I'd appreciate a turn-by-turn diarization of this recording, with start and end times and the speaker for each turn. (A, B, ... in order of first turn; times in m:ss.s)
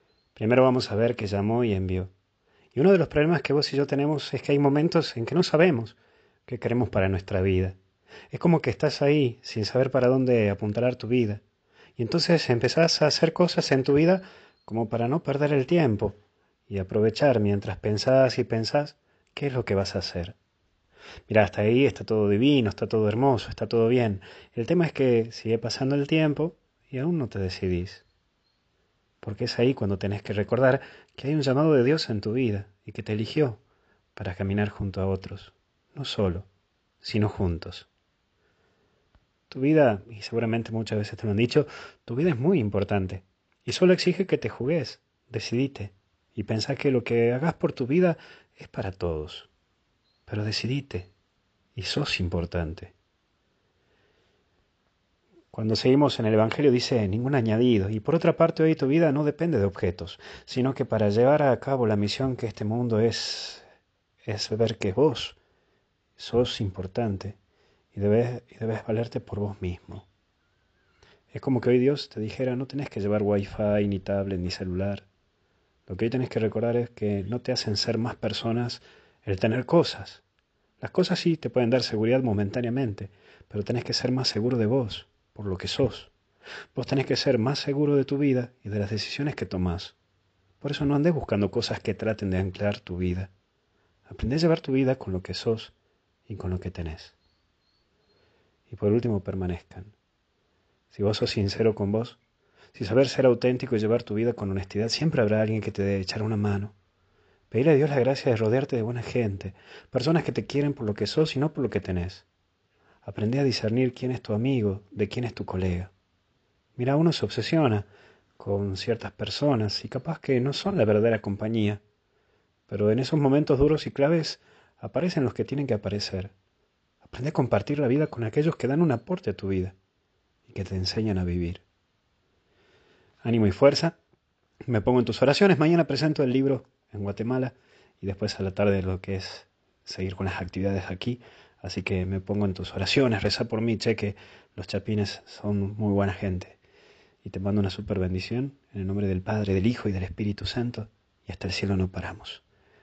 0:00.4-0:02.1 A
0:02.7-0:07.8 A
0:08.3-0:11.4 A
0:12.0-0:20.4 A
0:21.3-0:28.0 A
0:29.2-0:33.6 A
0:34.2-0:36.5 A
0:37.0-0:37.9 A
0:39.5-0:49.5 A
0:50.3-0:51.1 A
0:51.8-0:52.9 A
0:55.5-1:03.6 A
1:04.2-1:05.4 A
1:06.2-1:07.4 A
1:07.9-1:10.1 A
1:11.3-1:15.1 A
1:15.9-1:20.2 A
1:20.8-1:26.1 A
1:26.8-1:30.0 A
1:30.6-1:33.3 A
1:34.1-1:35.7 A
1:36.3-1:37.2 A
1:38.7-1:40.0 A
1:40.9-1:42.2 A
1:42.7-1:46.7 A
1:47.5-1:52.3 A
1:53.0-1:55.9 A
1:56.8-1:57.9 A
1:58.4-2:01.8 A
2:02.7-2:06.3 A
2:07.0-2:09.8 A
2:10.5-2:11.6 A
2:13.2-2:14.0 A
2:14.7-2:26.6 A
2:27.2-2:32.4 A